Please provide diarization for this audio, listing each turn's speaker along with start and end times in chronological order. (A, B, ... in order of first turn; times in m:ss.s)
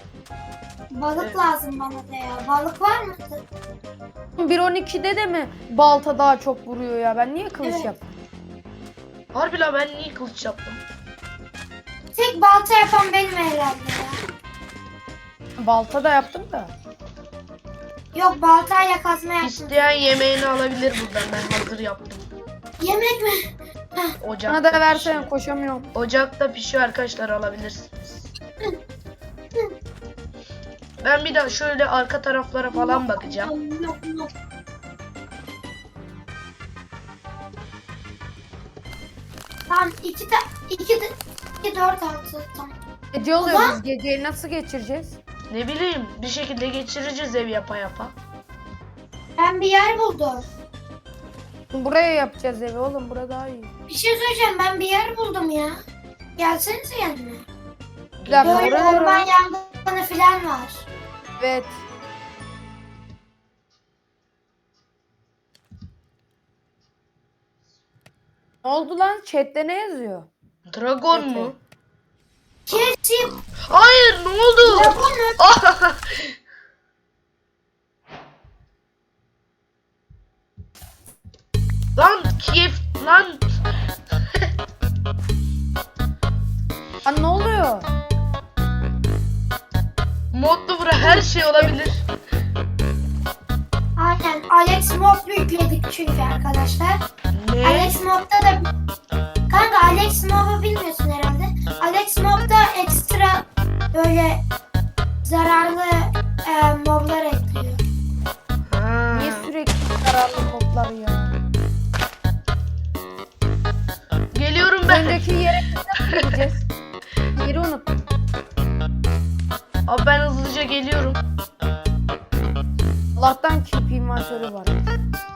0:00.9-0:03.4 A
0:04.4-0:08.0 B
0:09.3-0:10.8 C
0:12.1-0:14.2 A
0:15.6-0:16.7 B
0:18.1-0:19.8 A
0:19.4-0:22.3 C
0:22.8-0:24.2 A
0:24.2-0:25.3 C
0:24.5-0:25.9 B
0:25.9-0:28.3 C
0:31.0-0:33.5 C
0:32.7-0:34.3 A
0:39.7-0:42.7 A
0:43.1-0:45.2 B
0:43.4-0:43.8 A
0:45.5-0:48.1 C
0:49.4-0:50.5 A
0:51.7-0:53.7 B
0:53.9-0:55.8 A
0:56.4-0:57.4 A
0:58.2-0:59.0 C
0:58.2-0:59.3 B
0:58.4-1:00.8 A
1:01.4-1:01.8 B
1:08.6-1:10.3 B
1:10.7-1:11.6 C
1:11.1-1:11.5 B
1:12.7-1:13.4 A
1:13.7-1:16.3 C
1:14.6-1:15.5 A
1:22.0-1:23.5 C
1:27.0-1:27.9 B
1:30.3-1:32.0 C
1:31.0-1:31.7 B
1:34.0-1:37.0 A
1:37.3-1:38.0 C
1:37.6-1:38.7 A
1:39.5-1:44.4 A
1:45.2-1:47.8 A
1:48.6-1:49.5 C
1:49.1-1:51.3 B
1:54.3-1:55.2 C
1:54.8-1:56.6 B
1:56.1-1:56.4 C
1:57.3-1:57.9 B
1:59.8-2:01.2 C
2:03.2-2:04.8 B